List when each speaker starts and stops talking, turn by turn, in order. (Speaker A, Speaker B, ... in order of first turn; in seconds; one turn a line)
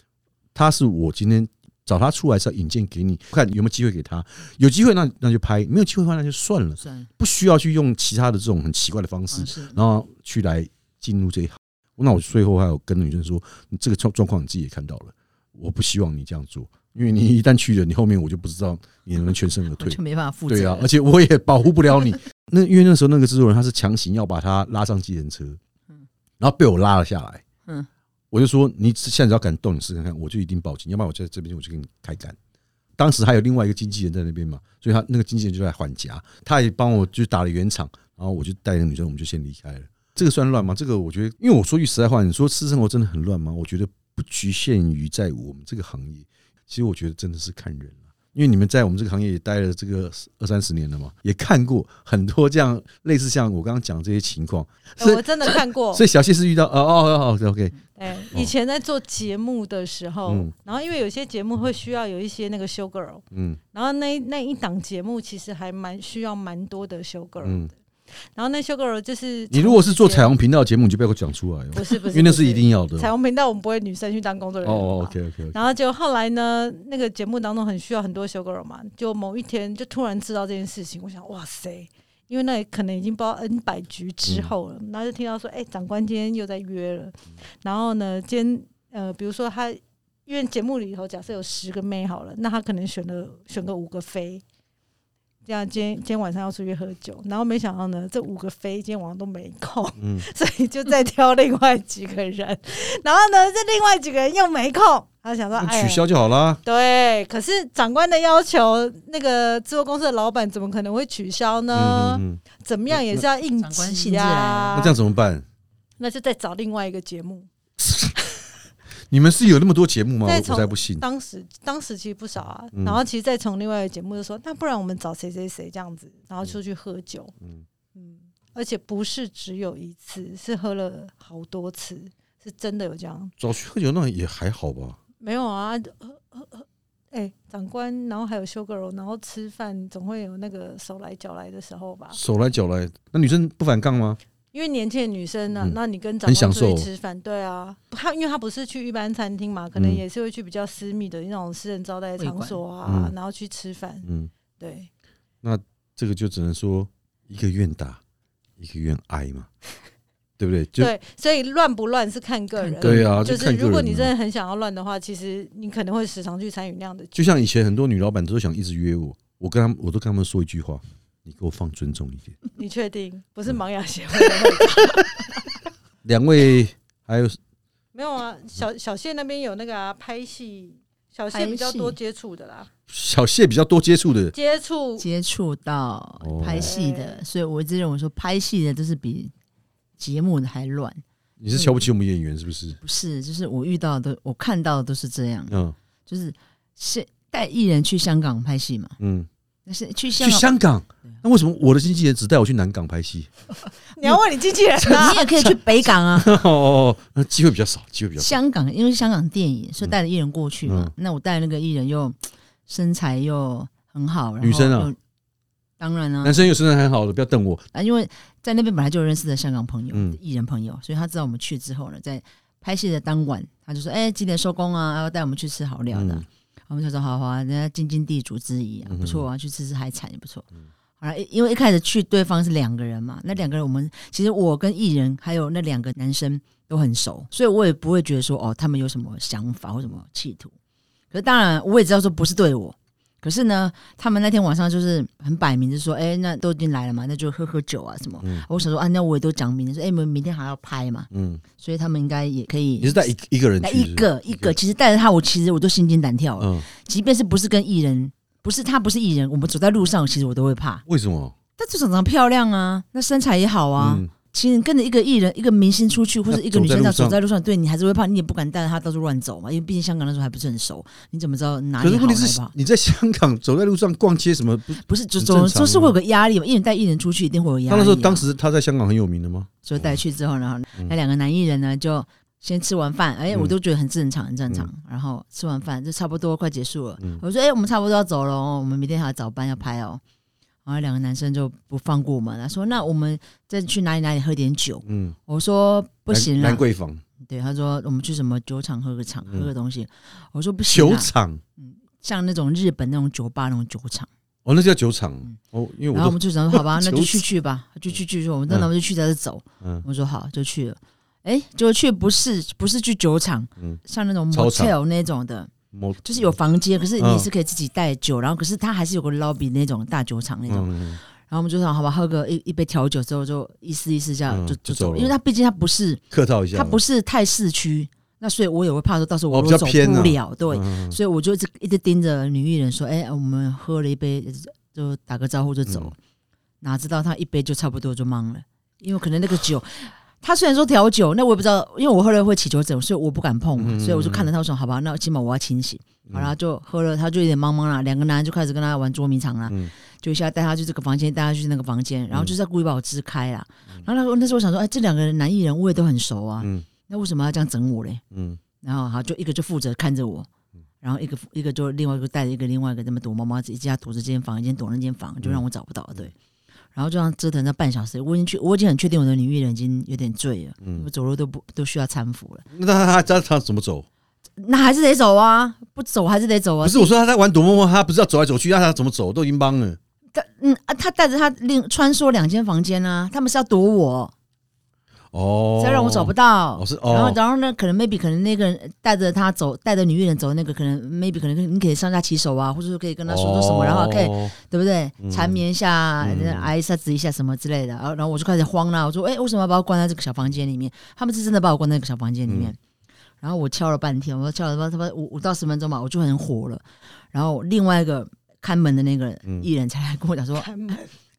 Speaker A: 0.5-25.6
Speaker B: 6.8-7.1
Speaker B: 9.3-9.8
Speaker B: 19.8-20.9
Speaker A: 26.4-27.4
Speaker A: 28.3-32.4
Speaker A: 33.0-57.8
Speaker C: 55.0-56.0
Speaker C: 57.9-70.3
Speaker A: 60.3-60.5
Speaker A: 63.3-63.6
Speaker A: 67.4-67.7
Speaker A: 69.5-73.1
Speaker C: 71.7-94.4
Speaker A: 74.6-75.6
Speaker A: 84.2-84.5
Speaker C: 95.5-106.1
Speaker A: 100.0-100.2
Speaker A: 105.6-106.6
Speaker C: 106.6-115.0
Speaker A: 111.7-113.2
Speaker B: 113.6-114.8
Speaker A: 114.7-115.4
Speaker C: 116.0-117.5
Speaker A: 117.8-118.1
Speaker A: 119.1-121.0
Speaker C: 120.2-127.3
Speaker A: 122.7-123.0
Speaker C: 127.9-133.3
Speaker A: 133.4-135.0
Speaker C: 135.2-142.2
Speaker A: 142.1-144.2
Speaker C: 144.5-154.1
Speaker A: 145.6-146.9
Speaker A: 149.7-150.0
Speaker B: 152.2-152.6
Speaker A: 152.8-153.1
Speaker A: 154.0-154.3
Speaker C: 154.6-154.9
Speaker A: 155.4-158.0
Speaker A: 158.6-159.5
Speaker A: 160.4-160.9
Speaker C: 160.8-167.2
Speaker B: 162.6-163.2
Speaker A: 162.8-164.1
Speaker A: 167.1-172.3
Speaker C: 172.6-175.0
Speaker A: 176.0-177.4
Speaker C: 177.9-182.7
Speaker B: 181.3-181.9
Speaker A: 182.9-184.3
Speaker C: 184.3-185.1
Speaker B: 185.0-189.3
Speaker A: 186.2-186.7
Speaker C: 186.4-187.2
Speaker B: 190.0-191.8
Speaker A: 191.4-192.8
Speaker B: 192.8-198.9
Speaker A: 195.5-195.7
Speaker A: 199.0-199.3
Speaker B: 199.7-200.5
Speaker A: 200.2-203.3
Speaker C: 203.9-205.3
Speaker A: 204.8-205.6
Speaker B: 204.8-206.4
Speaker A: 206.1-208.3
Speaker B: 208.2-215.0
Speaker A: 210.6-210.9
Speaker A: 214.4-214.9
Speaker B: 215.8-216.5
Speaker A: 216.2-217.7
Speaker B: 217.7-230.4
Speaker A: 219.9-220.2
Speaker A: 225.9-226.2
Speaker A: 228.8-229.3
Speaker B: 231.0-240.5
Speaker B: 241.1-253.1
Speaker A: 248.2-248.5
Speaker A: 251.1-251.4
Speaker A: 252.8-254.5
Speaker B: 253.6-260.8
Speaker A: 256.4-256.6
Speaker A: 260.9-261.3
Speaker B: 261.6-272.5
Speaker A: 263.8-264.1
Speaker A: 266.3-267.2
Speaker A: 271.8-275.9
Speaker B: 274.8-278.2
Speaker A: 277.7-280.0
Speaker B: 279.6-290.0
Speaker B: 290.6-296.6
Speaker A: 294.8-295.2
Speaker A: 296.1-297.0
Speaker B: 297.2-304.1
Speaker A: 300.7-301.4
Speaker A: 304.4-307.2
Speaker B: 305.9-315.5
Speaker A: 314.3-314.7
Speaker A: 315.7-316.3
Speaker B: 316.0-320.7
Speaker A: 317.0-317.3
Speaker A: 320.5-321.0
Speaker B: 321.3-326.0
Speaker A: 324.3-325.1
Speaker A: 326.1-326.8
Speaker B: 326.5-335.9
Speaker A: 329.3-331.0
Speaker A: 335.6-335.9
Speaker B: 336.6-358.0
Speaker A: 343.6-344.3
Speaker A: 346.1-346.3
Speaker A: 356.4-356.7
Speaker A: 358.1-358.4
Speaker B: 358.6-360.3
Speaker B: 360.8-366.1
Speaker B: 366.7-372.4
Speaker A: 370.6-370.9
Speaker A: 372.5-373.9
Speaker B: 374.4-376.9
Speaker A: 376.6-379.8
Speaker B: 380.1-384.1
Speaker A: 385.1-387.2
Speaker B: 385.6-402.6
Speaker A: 393.1-394.3
Speaker A: 395.0-395.4
Speaker A: 396.0-396.5
Speaker A: 402.3-402.5
Speaker B: 403.2-410.8
Speaker C: 410.3-410.9